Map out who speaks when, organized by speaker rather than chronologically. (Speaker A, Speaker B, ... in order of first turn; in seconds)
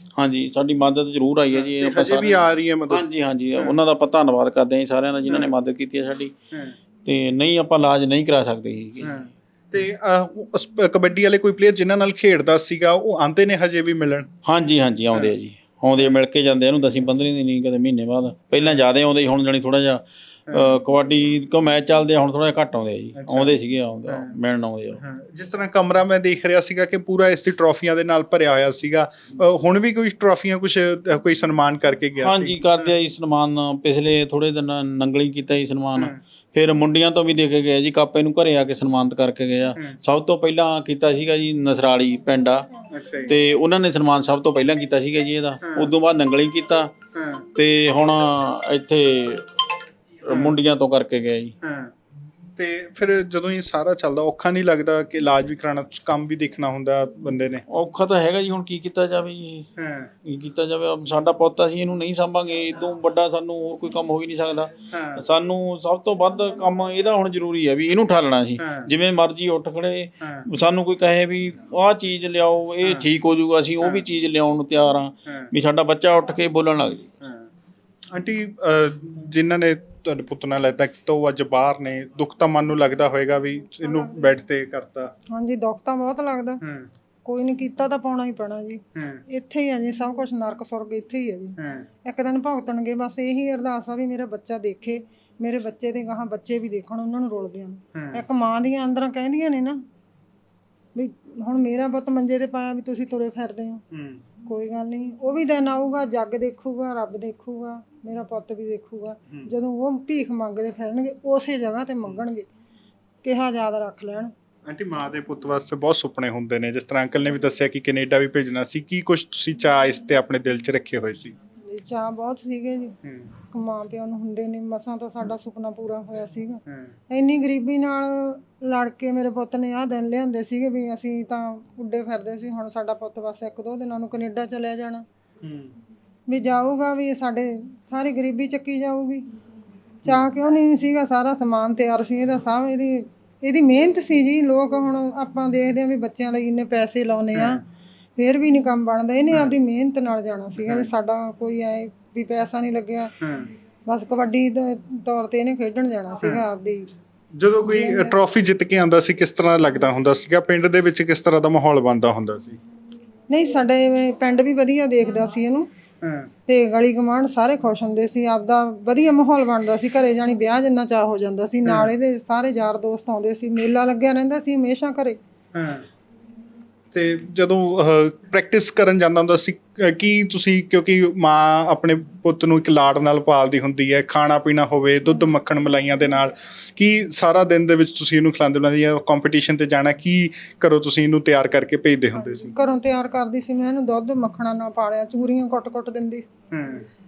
Speaker A: 0.2-6.3, 7.0-9.2, 14.4-25.0, 32.2-42.7, 43.3-46.9, 47.5-49.7, 50.2-51.5, 57.7-59.7, 60.2-77.1
Speaker B: 1.5-3.0, 5.3-5.5, 9.0-14.3, 18.6-18.8, 20.5-20.8, 23.2-24.3, 25.0-32.9, 42.9-43.4, 45.6-45.9, 47.1-47.5, 50.3-50.6, 51.6-51.9, 52.6-57.6, 59.8-60.1, 64.9-65.2, 68.6-68.9, 70.2-70.5, 77.2-77.5, 78.1-85.1, 86.6-86.9, 89.0-89.2, 91.6-91.9, 98.0-98.2, 103.9-104.2, 114.7-121.3, 123.0-123.3, 135.4-135.7, 147.3-147.6, 150.6-150.9, 153.2-153.5, 156.2-156.4, 157.4-162.6, 166.0-166.3, 171.7-171.9, 175.5-175.8, 176.9-192.5, 196.5-196.8
Speaker C: 83.8-84.3, 85.3-86.6, 87.2-99.8, 101.0-103.8, 104.5-112.5, 113.2-114.3, 121.7-123.0, 123.5-135.0, 136.3-139.2, 140.0-147.6, 148.2-153.1, 153.9-156.8, 157.6-158.2, 163.3-165.7, 166.5-175.2, 192.2-196.3